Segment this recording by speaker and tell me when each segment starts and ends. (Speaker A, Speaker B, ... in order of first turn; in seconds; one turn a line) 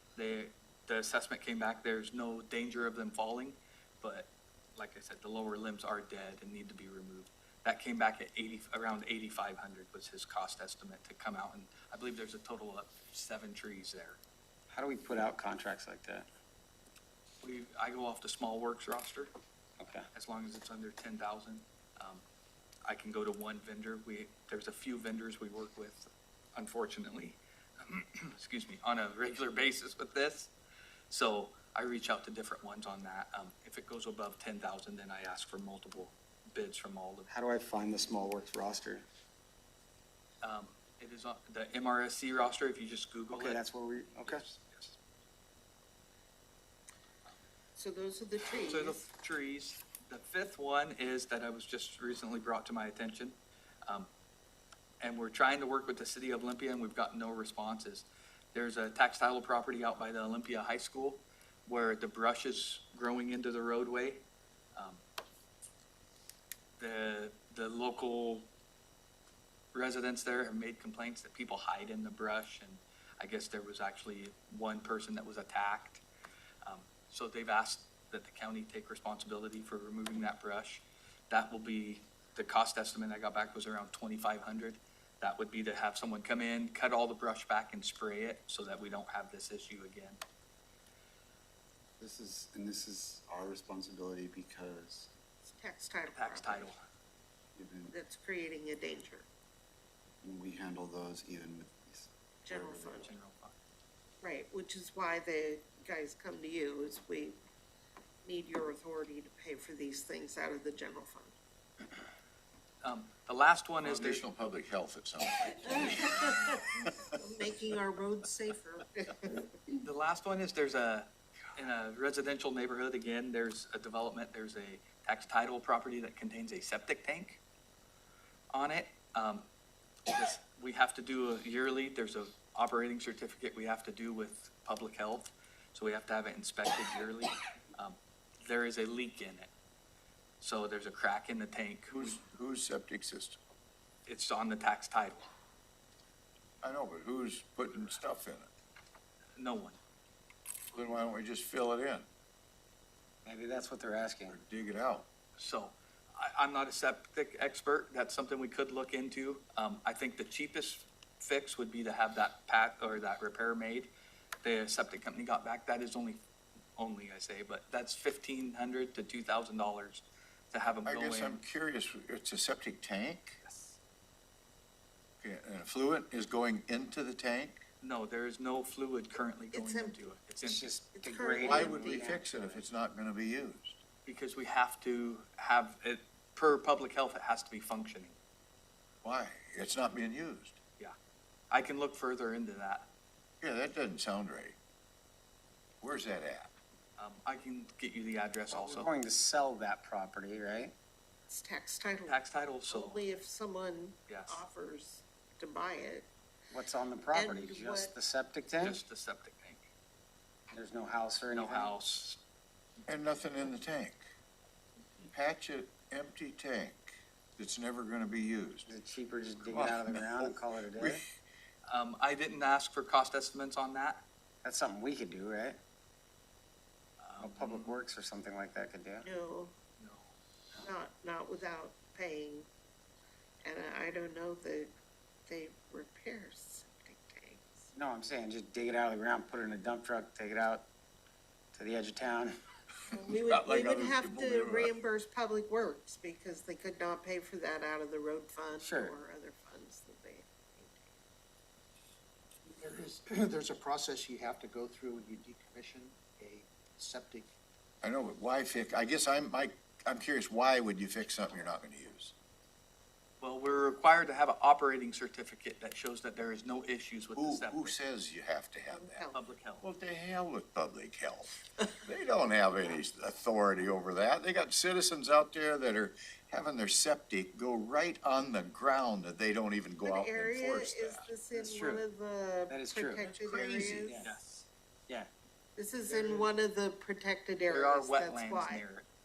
Speaker A: 0.2-14.2
Speaker B: 14.7-16.3
Speaker A: 17.4-19.3
Speaker B: 19.8-20.1
Speaker A: 20.1-22.2
Speaker A: 22.9-30.5
Speaker A: 31.1-37.3
Speaker B: 37.3-39.0
Speaker A: 40.4-43.6
Speaker B: 43.3-44.5
Speaker A: 44.2-45.0
Speaker C: 47.8-49.0
Speaker A: 48.7-54.1
Speaker A: 55.0-64.2
Speaker A: 64.8-65.0
Speaker A: 66.8-68.5
Speaker A: 69.7-76.0
Speaker A: 76.7-90.2
Speaker D: 92.0-95.1
Speaker C: 95.4-96.7
Speaker A: 96.2-96.8
Speaker D: 97.6-97.9
Speaker C: 97.9-99.3
Speaker D: 100.2-102.9
Speaker C: 102.5-103.1
Speaker A: 102.9-103.5
Speaker C: 104.2-107.4
Speaker C: 108.2-111.3
Speaker A: 112.8-114.3
Speaker E: 113.8-116.8
Speaker C: 115.8-119.8
Speaker A: 119.8-127.4
Speaker A: 128.5-129.5
Speaker A: 130.1-139.5
Speaker A: 140.4-142.2
Speaker E: 141.9-143.4
Speaker A: 144.1-145.2
Speaker E: 146.6-148.5
Speaker A: 149.4-149.8
Speaker E: 150.7-152.1
Speaker B: 153.2-154.4
Speaker E: 154.3-155.1
Speaker A: 155.4-163.9
Speaker A: 164.4-166.2
Speaker A: 166.8-171.4
Speaker E: 170.8-173.4
Speaker A: 173.4-173.7
Speaker E: 175.2-177.6
Speaker A: 177.8-180.7
Speaker C: 179.5-180.0
Speaker B: 180.4-182.6
Speaker C: 180.9-182.0
Speaker E: 181.4-183.8
Speaker A: 184.1-188.2
Speaker E: 189.0-190.6
Speaker A: 191.5-192.9
Speaker E: 193.4-194.6
Speaker E: 195.8-196.5
Speaker A: 197.0-198.9
Speaker B: 198.5-200.8
Speaker C: 201.3-206.1
Speaker A: 202.1-203.1
Speaker A: 204.1-204.4
Speaker B: 206.5-208.8
Speaker C: 207.1-207.9
Speaker A: 208.6-209.6
Speaker B: 210.5-211.7
Speaker A: 211.3-212.2
Speaker E: 212.9-214.0
Speaker E: 215.1-218.7
Speaker B: 218.7-221.0
Speaker E: 219.4-221.0
Speaker A: 221.7-224.1
Speaker B: 224.4-225.6
Speaker A: 227.0-227.8
Speaker B: 227.2-229.1
Speaker C: 229.0-229.6
Speaker A: 229.8-230.1
Speaker C: 230.6-232.5
Speaker C: 233.4-234.7
Speaker C: 235.3-237.7
Speaker B: 237.7-240.7
Speaker B: 241.5-242.4
Speaker E: 242.9-244.7
Speaker C: 242.9-250.9
Speaker B: 248.6-249.0
Speaker F: 252.5-257.3
Speaker E: 257.8-262.1
Speaker A: 263.2-267.8
Speaker E: 267.1-269.0
Speaker C: 268.7-269.2
Speaker A: 269.1-269.6
Speaker E: 269.6-281.1
Speaker C: 279.8-284.0
Speaker B: 281.4-281.9
Speaker B: 282.5-283.1
Speaker E: 283.0-284.0
Speaker B: 283.9-284.2
Speaker A: 284.0-284.5
Speaker C: 285.6-288.6
Speaker B: 285.9-286.2
Speaker A: 287.5-288.9